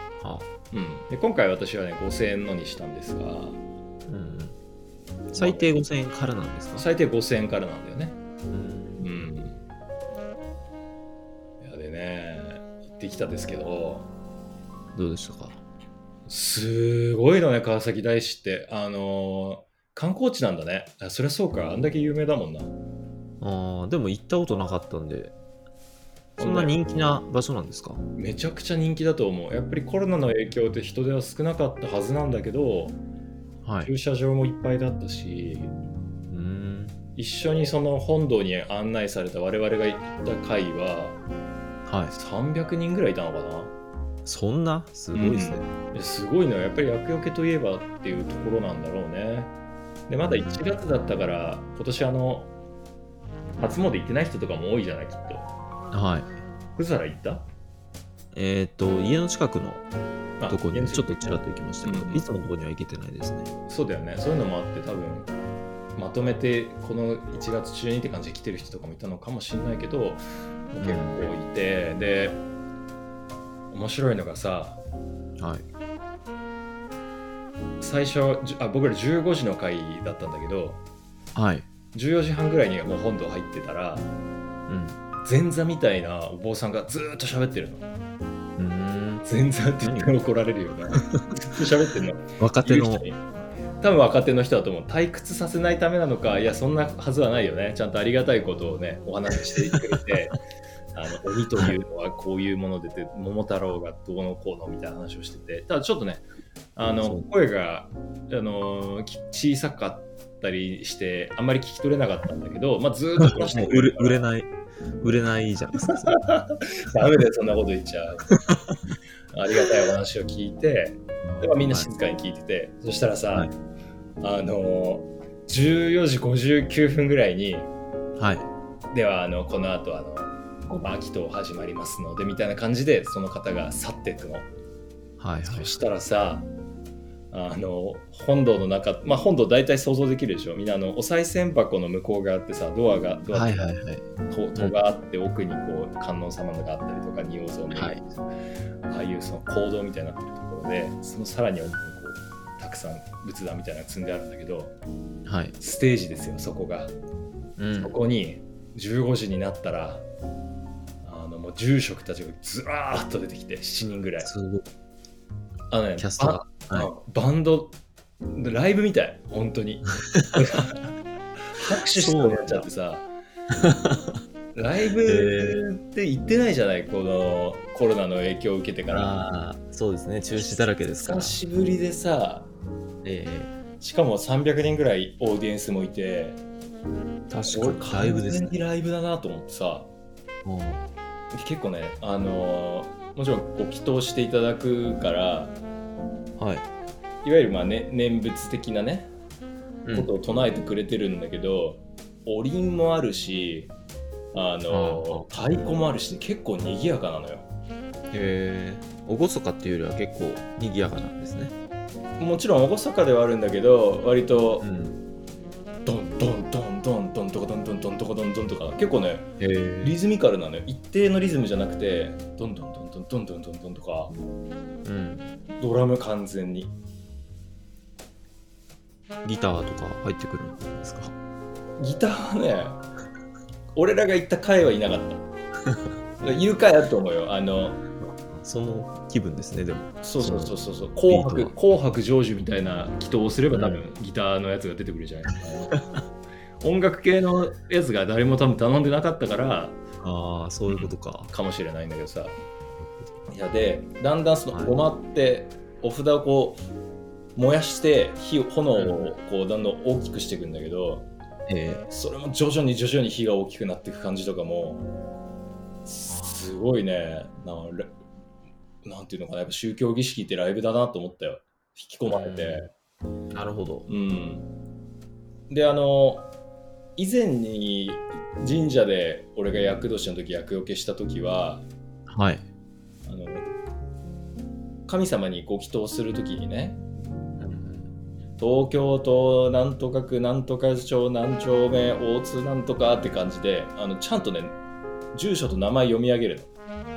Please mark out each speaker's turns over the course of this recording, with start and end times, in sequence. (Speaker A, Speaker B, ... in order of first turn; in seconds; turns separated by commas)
Speaker A: 0.2-0.5, Speaker B: 0.7-3.6, Speaker A: 4.1-4.5, Speaker A: 5.3-6.8, Speaker B: 5.3-5.7, Speaker B: 6.8-8.2, Speaker A: 8.5-9.1, Speaker B: 9.0-9.6, Speaker B: 11.6-14.1, Speaker A: 14.9-15.6, Speaker B: 16.3-22.7, Speaker A: 23.4-25.3, Speaker A: 26.4-28.0, Speaker B: 26.4-26.7, Speaker B: 28.2-33.0, Speaker A: 33.6-33.9, Speaker B: 33.8-35.7, Speaker A: 36.3-37.0, Speaker B: 37.1-41.2, Speaker A: 41.9-42.1, Speaker B: 42.1-43.7, Speaker A: 44.2-45.7, Speaker B: 45.1-49.5, Speaker B: 50.1-52.5, Speaker A: 50.2-50.6, Speaker B: 53.6-55.5, Speaker A: 55.9-56.3, Speaker B: 56.8-57.5, Speaker A: 58.3-59.8, Speaker B: 60.4-62.2, Speaker A: 60.5-63.5, Speaker B: 63.7-65.3, Speaker B: 66.0-72.4, Speaker A: 70.8-71.3, Speaker B: 73.7-74.8, Speaker A: 75.4-75.6, Speaker B: 77.8-80.8, Speaker A: 81.3-81.7, Speaker B: 81.9-84.1, Speaker A: 84.7-85.0, Speaker B: 85.2-87.9, Speaker A: 88.6-89.2, Speaker B: 89.2-93.2, Speaker A: 89.8-90.1, Speaker A: 92.4-93.0, Speaker B: 93.8-100.3, Speaker B: 100.9-106.2, Speaker B: 106.8-114.2, Speaker A: 113.4-116.2, Speaker B: 115.9-118.3, Speaker A: 118.3-118.7, Speaker B: 119.3-123.5, Speaker A: 121.2-121.9, Speaker B: 124.2-127.7, Speaker A: 128.2-128.5, Speaker B: 128.9-134.5, Speaker A: 135.2-135.8, Speaker B: 135.4-136.5, Speaker B: 137.3-143.7, Speaker A: 143.3-144.0, Speaker B: 144.3-148.0, Speaker A: 147.7-148.0, Speaker B: 148.8-154.7, Speaker A: 155.2-155.5, Speaker B: 155.6-156.9, Speaker A: 157.6-157.9, Speaker B: 157.8-160.0, Speaker B: 161.0-164.3, Speaker A: 164.2-164.6, Speaker B: 165.7-167.8, Speaker A: 166.0-166.9, Speaker B: 168.3-170.8, Speaker B: 171.5-173.1, Speaker A: 171.9-172.7, Speaker A: 173.5-174.2, Speaker B: 174.5-179.1, Speaker A: 175.1-175.6, Speaker A: 178.9-181.4, Speaker B: 180.3-182.5, Speaker A: 183.0-183.5, Speaker B: 183.8-186.4, Speaker A: 187.3-188.5, Speaker B: 187.4-189.9, Speaker A: 190.4-190.8, Speaker B: 191.3-195.6, Speaker A: 196.4-196.6, Speaker B: 197.2-199.1, Speaker A: 199.8-200.1, Speaker B: 199.9-203.7, Speaker B: 204.3-207.4, Speaker A: 204.7-205.3, Speaker A: 208.1-211.5, Speaker B: 212.2-214.7, Speaker A: 214.6-215.0, Speaker B: 215.8-219.3, Speaker A: 219.4-219.9, Speaker B: 219.8-224.1, Speaker A: 224.8-225.3, Speaker B: 225.6-226.7, Speaker A: 229.2-231.1, Speaker B: 231.8-232.8, Speaker B: 233.7-235.2, Speaker B: 236.2-237.8, Speaker A: 238.0-240.6, Speaker B: 240.0-245.7, Speaker A: 241.1-241.5, Speaker A: 243.5-243.8, Speaker A: 245.7-246.0, Speaker B: 246.6-249.8, Speaker A: 250.0-251.3, Speaker B: 250.7-252.3, Speaker B: 253.3-256.6, Speaker B: 257.4-261.1, Speaker A: 258.8-259.1, Speaker A: 261.5-261.9, Speaker B: 261.9-264.8, Speaker B: 265.9-267.9, Speaker A: 266.1-266.5, Speaker B: 268.8-272.7, Speaker A: 272.1-272.7, Speaker A: 273.3-273.9, Speaker B: 273.9-274.5, Speaker B: 275.5-276.3, Speaker B: 277.0-281.7, Speaker A: 282.1-282.4, Speaker B: 283.1-283.5, Speaker B: 284.9-286.8, Speaker A: 287.4-287.9, Speaker B: 288.4-294.6, Speaker B: 295.1-296.5